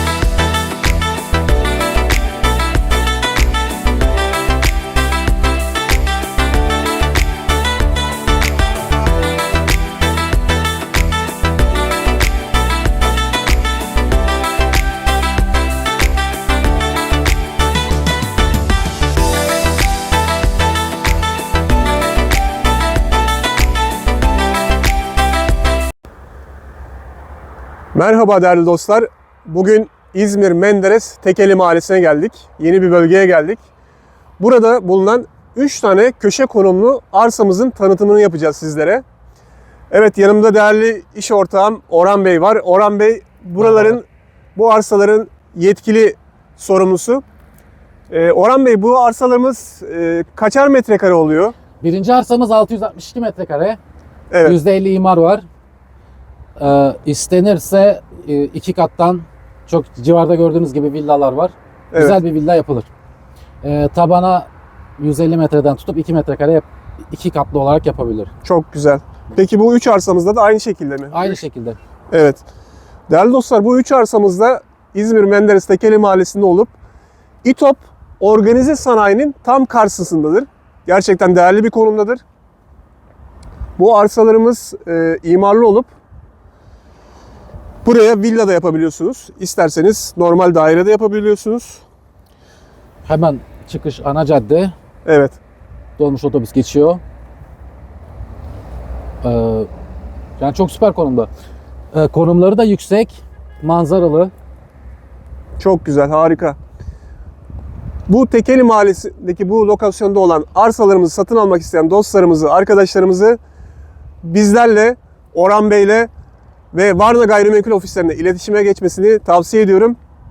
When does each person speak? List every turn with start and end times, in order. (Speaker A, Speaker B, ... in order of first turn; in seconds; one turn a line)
Speaker A: 27.9-33.6
Speaker A: 34.4-39.0
Speaker A: 39.9-47.2
Speaker B: 43.6-44.0
Speaker A: 48.1-51.5
Speaker B: 51.8-53.8
Speaker A: 54.3-54.6
Speaker B: 54.4-55.4
Speaker B: 56.6-62.9
Speaker A: 61.9-62.2
Speaker B: 63.6-68.3
Speaker A: 68.4-71.4
Speaker B: 71.1-71.8
Speaker A: 72.1-72.4
Speaker A: 73.1-76.7
Speaker A: 77.4-82.2
Speaker A: 83.8-85.9
Speaker A: 87.8-91.8
Speaker B: 93.0-94.7
Speaker A: 95.0-95.4
Speaker B: 96.0-97.0
Speaker B: 99.2-99.7
Speaker B: 100.4-101.3
Speaker B: 101.9-104.3
Speaker A: 105.6-106.6
Speaker A: 108.1-113.4
Speaker A: 114.2-116.1
Speaker A: 116.7-120.0